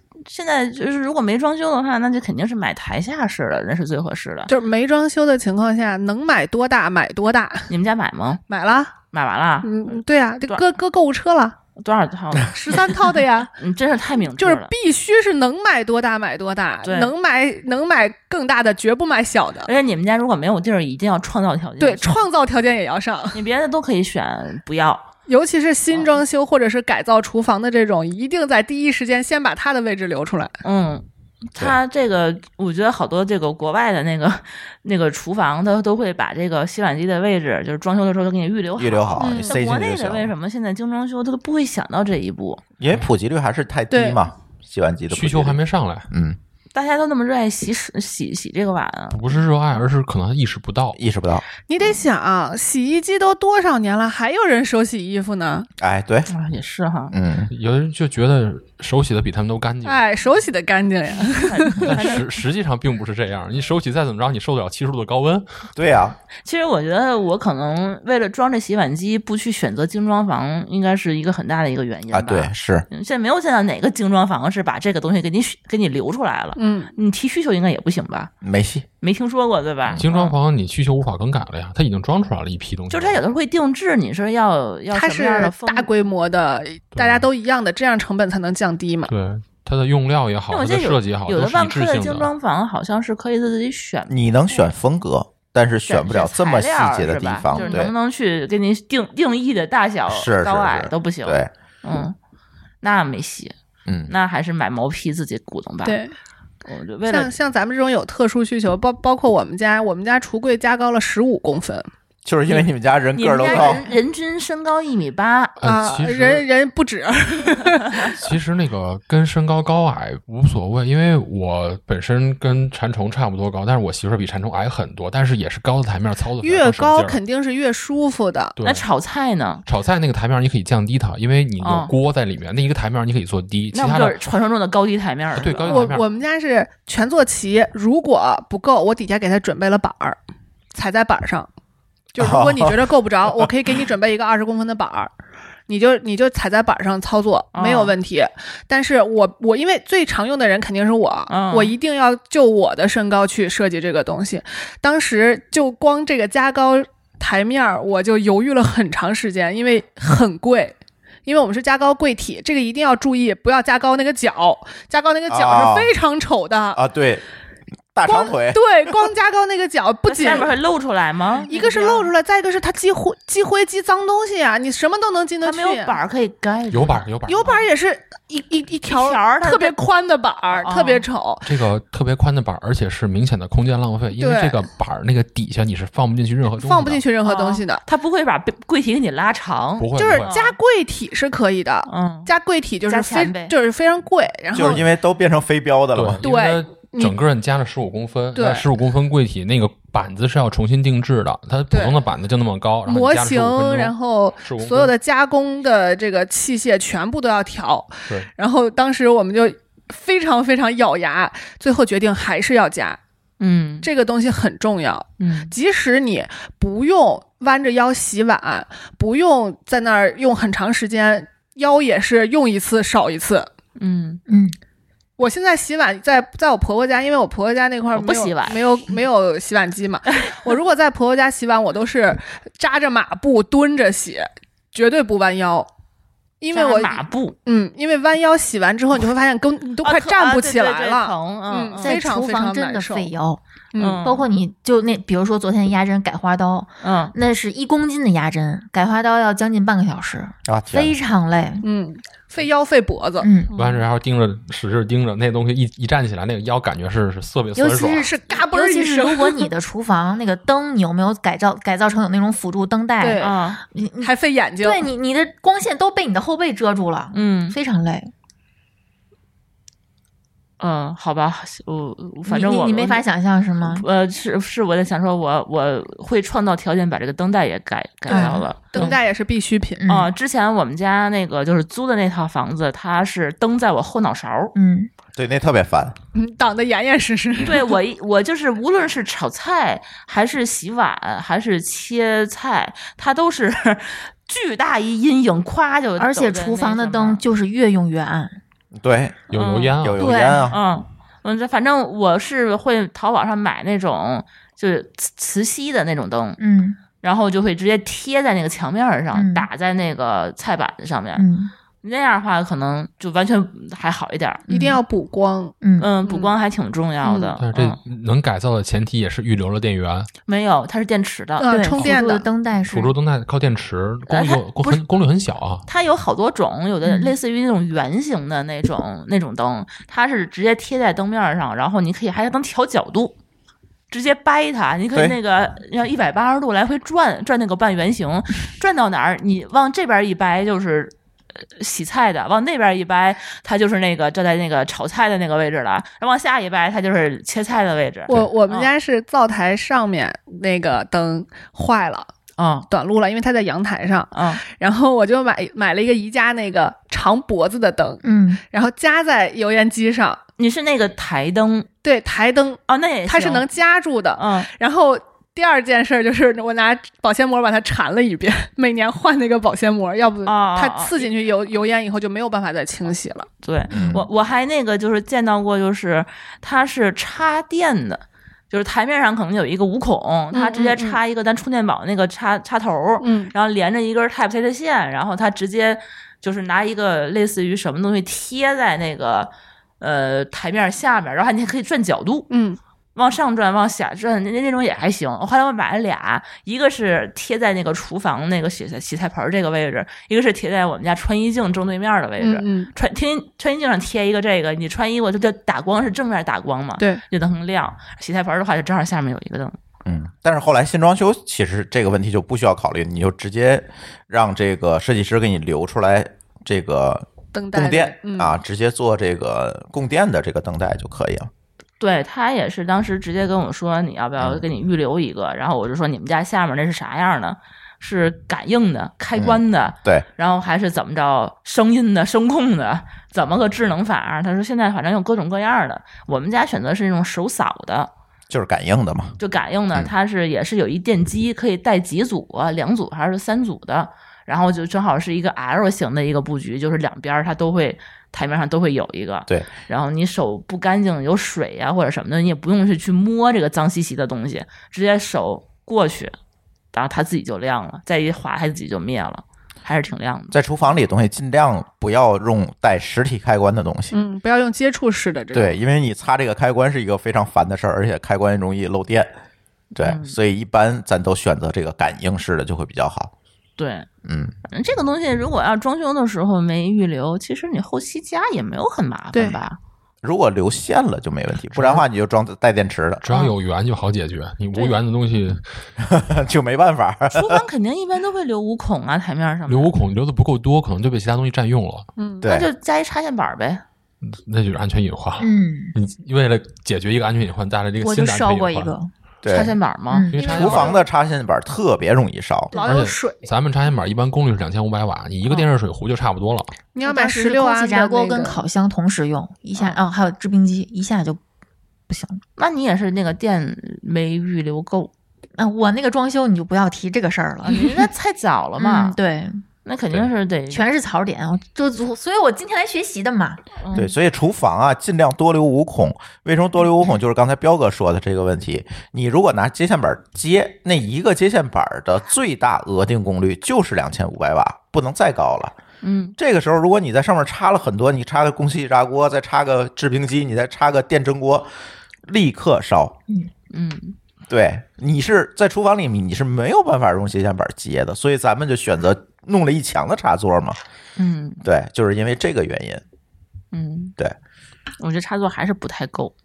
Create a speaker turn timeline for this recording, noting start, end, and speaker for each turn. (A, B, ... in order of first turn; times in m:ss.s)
0:00.3-0:04.5 A
0:04.5-0:07.7 B
0:07.7-0:08.4 A
0:08.5-0:08.9 B
0:09.1-0:10.6 A
0:09.6-0:11.6 B
0:11.8-0:14.7 A
0:12.5-0:13.5 B
0:14.3-0:19.7 B
0:16.8-0:17.1 A
0:19.6-0:22.2 A
0:21.8-0:23.4 B
0:23.3-0:25.1 A
0:25.3-0:30.6 B
0:30.6-0:42.6 A
0:38.8-0:40.3 C
0:39.2-0:39.6 B
0:42.8-0:45.6 C
0:43.9-0:44.2 B
0:45.1-0:46.1 D
0:46.1-0:46.4 C
0:46.7-0:49.4 A
0:49.1-0:51.0 D
0:51.0-0:51.4 C
0:51.7-0:55.7 B
0:55.8-0:56.3 C
0:56.3-0:57.1 A
0:57.1-0:57.5 C
0:57.5-1:00.0 D
0:59.8-1:02.1 B
1:01.2-1:02.2 A
1:01.8-1:05.4 D
1:05.8-1:06.2 C
1:06.4-1:18.3 A
1:12.1-1:12.8 C
1:16.6-1:16.9 B
1:18.4-1:18.8 C
1:19.0-1:20.4 A
1:20.0-1:23.2 D
1:22.9-1:25.9 A
1:24.9-1:29.1 B
1:27.0-1:27.2 D
1:29.1-1:32.3 D
1:30.5-1:34.1 A
1:34.1-1:37.9 C
1:35.9-1:42.2 A
1:37.6-1:37.8 B
1:40.1-1:41.5 C
1:42.8-1:43.5 A
1:43.9-1:44.1 C
1:44.1-1:46.0 A
1:45.8-1:46.2 B
1:46.6-1:47.3 A
1:47.1-1:51.9 B
1:52.2-1:53.8 C
1:52.5-1:55.6 A
1:55.6-1:56.4 D
1:55.6-1:58.2 B
1:58.1-2:07.2 D
2:06.4-2:08.6 B
2:08.6-2:08.9 D
2:08.6-2:09.6 A
2:09.6-2:14.2 D
2:11.6-2:11.9 A
2:13.7-2:15.9 A
2:15.4-2:16.1 D
2:15.7-2:20.2 B
2:20.7-2:21.5 B
2:22.2-2:25.1 B
2:22.2-2:23.5 C
2:25.7-2:40.8 B
2:27.5-2:28.0 A
2:31.3-2:31.8 A
2:41.3-2:46.8 B
2:45.3-2:45.9 C
2:46.8-2:47.2 C
2:47.9-2:49.0 C
2:48.0-2:50.5 B
2:50.1-2:52.1 A
2:51.4-2:56.0 B
2:55.4-2:57.0 A
2:56.7-2:57.6 D
2:57.3-3:01.5 B
2:58.9-2:59.8 A
3:00.6-3:01.1 A
3:01.4-3:07.0 D
3:04.2-3:04.6 B
3:06.6-3:07.8 B
3:07.2-3:10.6 A
3:09.8-3:10.3 D
3:10.0-3:14.8 B
3:11.9-3:12.3 A
3:12.9-3:13.5 A
3:14.5-3:16.2 C
3:16.0-3:24.9 D
3:16.2-3:17.2 B
3:18.4-3:18.7 B
3:21.7-3:22.0 B
3:22.9-3:33.0 B
3:33.4-3:33.9 A
3:33.8-3:43.5 B
3:35.2-3:35.6 A
3:43.8-3:44.2 A
3:44.3-3:44.6 E
3:45.2-3:55.7 B
3:47.9-3:48.7 A
3:56.4-4:03.1 B
3:56.5-3:57.4 A
3:59.8-4:02.0 A
4:01.8-4:03.4 E
4:03.7-4:04.0 B
4:03.8-4:04.3 A
4:04.0-4:11.6 E
4:06.8-4:07.2 A
4:10.5-4:10.9 C
4:11.6-4:13.8 B
4:13.2-4:13.5 E
4:13.6-4:18.1 D
4:17.6-4:28.1 E
4:17.9-4:19.5 B
4:23.0-4:23.4 B
4:23.2-4:23.6 A
4:24.0-4:24.8 B
4:27.1-4:27.6 A
4:30.6-4:33.0 A
4:32.2-4:33.9 E
4:33.6-4:39.0 A
4:38.1-4:39.0 E
4:38.1-4:39.8 B
4:39.8-4:40.1 E
4:39.9-4:44.5 A
4:44.5-4:44.9 E
4:45.2-4:46.0 C
4:46.2-4:47.8 B
4:47.4-4:57.2 A
4:56.0-4:58.4 E
4:58.7-4:59.2 C
4:59.3-5:00.1 D
4:59.3-4:59.8 A
4:59.8-5:00.6 C
5:00.0-5:00.5 E
5:00.4-5:06.4 A
5:06.4-5:06.8 E
5:07.0-5:11.3 A
5:09.1-5:09.5 E
5:11.2-5:11.5 E
5:11.8-5:14.4 A
5:14.5-5:14.8 E
5:14.5-5:16.3 B
5:15.6-5:15.9 E
5:15.8-5:17.8 A
5:17.0-5:17.4 B
5:17.4-5:20.1 D
5:20.3-5:21.5 A
5:21.4-5:22.3 B
5:21.5-5:22.9 E
5:22.7-5:25.6 D
5:24.1-5:24.8 A
5:25.7-5:33.2 A
5:26.9-5:27.1 E
5:33.9-5:40.9 A
5:41.6-5:48.7 A
5:48.1-5:52.1 B
5:52.4-5:52.7 A
5:52.7-6:00.2 B
5:54.1-5:54.4 A
5:58.0-5:58.4 E
6:00.4-6:01.7 A
6:01.8-6:13.3 B
6:02.7-6:03.5 A
6:04.2-6:04.5 A
6:10.2-6:11.1 A
6:13.4-6:32.3 A
6:13.7-6:14.0 C
6:20.3-6:21.0 B
6:23.0-6:23.3 B
6:32.3-6:32.6 B
6:33.0-6:49.6 A
6:42.2-6:42.7 B
6:49.9-7:01.3 C
6:57.3-6:58.4 B
7:01.8-7:17.9 A
7:04.2-7:04.4 C
7:09.2-7:10.1 C
7:18.3-7:19.2 C
7:19.2-7:36.2 A
7:36.7-7:40.3 A
7:40.3-7:43.9 C
7:43.9-7:45.6 B
7:45.3-7:49.1 C
7:49.8-7:53.1 C
7:49.8-7:50.2 A
7:53.6-7:53.9 A
7:54.0-7:54.3 C
7:54.5-7:59.6 A
7:59.1-7:59.4 B
8:00.0-8:03.0 C
8:01.6-8:01.8 D
8:03.0-8:05.4 D
8:05.8-8:07.4 C
8:07.1-8:09.7 A
8:09.5-8:11.9 D
8:12.0-8:12.2 B
8:12.2-8:12.5 C
8:12.2-8:13.6 A
8:14.0-8:18.8 D
8:15.2-8:15.7 E
8:17.8-8:18.9 E
8:19.2-8:19.6 C
8:19.3-8:20.1 A
8:19.9-8:20.2 E
8:20.1-8:20.8 D
8:20.2-8:20.8 B
8:20.2-8:22.5 C
8:22.5-8:23.3 B
8:22.5-8:26.6 D
8:26.7-8:28.4 B
8:26.8-8:31.2 E
8:31.9-8:32.2 E
8:32.4-8:34.9 A
8:35.4-8:37.9 E
8:37.4-8:39.0 A
8:38.6-8:39.4 E
8:39.6-8:40.7 A
8:40.5-8:43.8 E
8:43.6-8:43.9 A
8:43.8-8:55.6 C
8:55.8-8:56.2 A
8:56.2-9:01.5 C
9:02.1-9:03.0 C
9:03.5-9:04.0 A
9:04.3-9:10.6 C
9:11.0-9:11.4 A
9:11.4-9:12.8 C
9:13.5-9:14.0 A
9:14.8-9:16.1 A